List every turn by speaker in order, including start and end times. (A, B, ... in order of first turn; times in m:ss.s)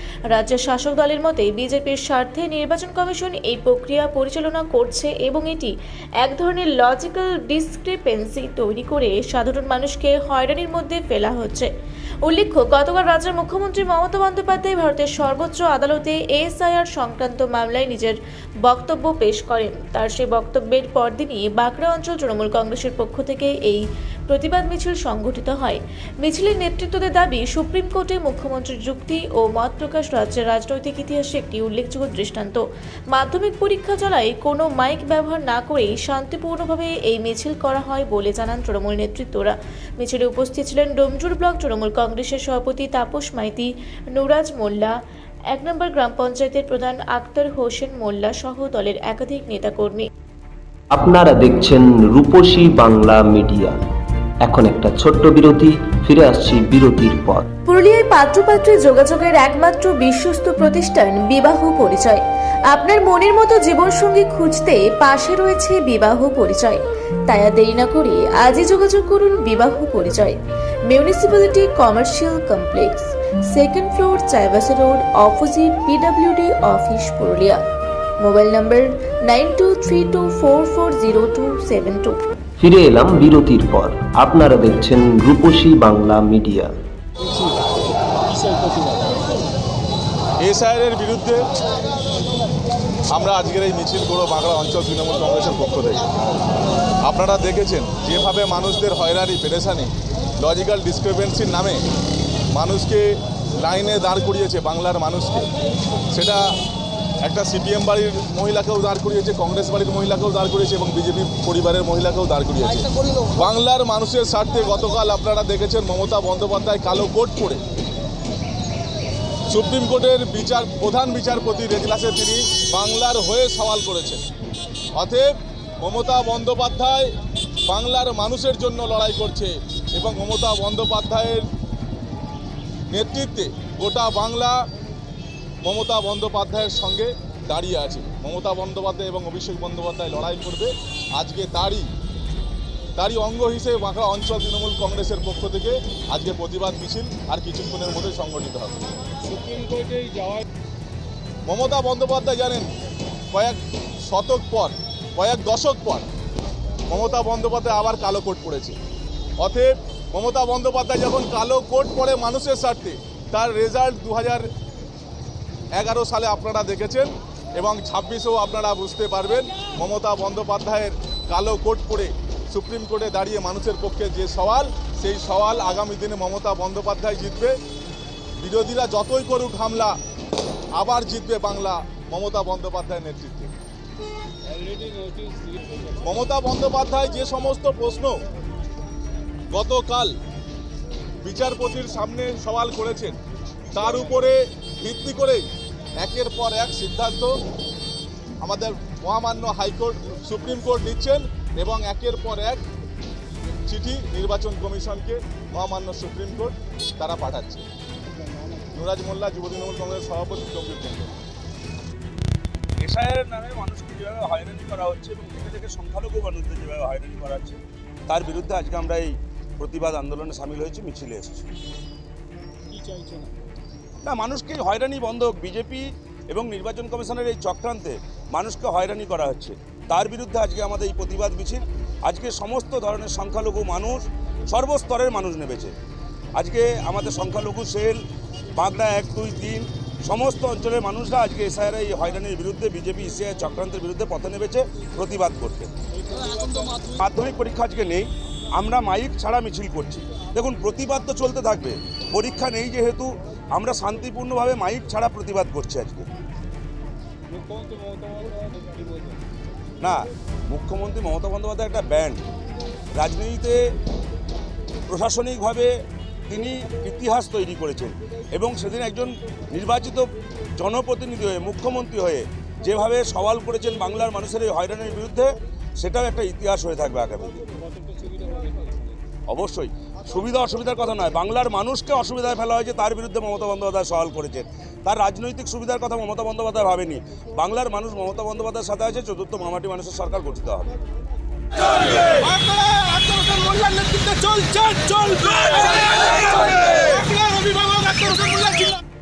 0:00.3-0:11.7 A
0:12.2-0:44.9 A
0:45.5-0:50.1 A
0:50.9-0:53.8 B
0:54.4-0:57.5 B
0:57.7-1:10.4 A
1:10.9-1:17.6 A
1:18.2-1:22.2 A
1:22.6-1:26.7 B
1:27.2-1:27.7 C
1:28.3-1:29.2 C
1:30.4-1:31.4 D
1:33.1-1:36.0 D
1:37.0-1:41.8 D
1:42.5-1:45.5 D
1:46.1-1:46.4 D
1:47.2-1:57.6 D
1:59.5-2:04.2 D
2:05.0-2:07.1 D
2:07.6-2:11.4 D
2:12.9-2:14.6 D
2:15.6-2:21.9 D
2:23.0-2:28.7 D
2:29.2-2:30.4 C
2:31.4-2:32.7 D
2:33.3-2:36.0 D
2:36.9-2:38.8 D
2:39.4-2:44.5 D
2:45.7-2:57.5 D
2:58.4-3:00.0 D
3:00.7-3:03.5 D
3:04.4-3:06.0 C
3:06.0-3:08.2 D
3:09.5-3:10.2 D
3:11.2-3:13.2 D
3:13.7-3:15.4 D
3:16.0-3:17.3 D
3:18.4-3:22.6 D
3:23.6-3:27.6 D
3:28.2-3:28.7 C
3:28.7-3:31.1 D
3:32.8-3:41.4 E
3:42.7-3:43.4 C
3:44.0-3:55.7 E
3:56.4-3:58.0 E
3:58.6-4:05.7 E
4:06.0-4:07.0 C
4:07.0-4:16.1 E
4:17.3-4:19.2 C
4:19.8-4:22.2 E
4:22.9-4:23.6 E
4:24.9-4:25.7 E
4:26.3-4:37.5 E
4:37.5-4:39.0 C
4:39.3-4:50.7 E
4:51.6-4:58.8 E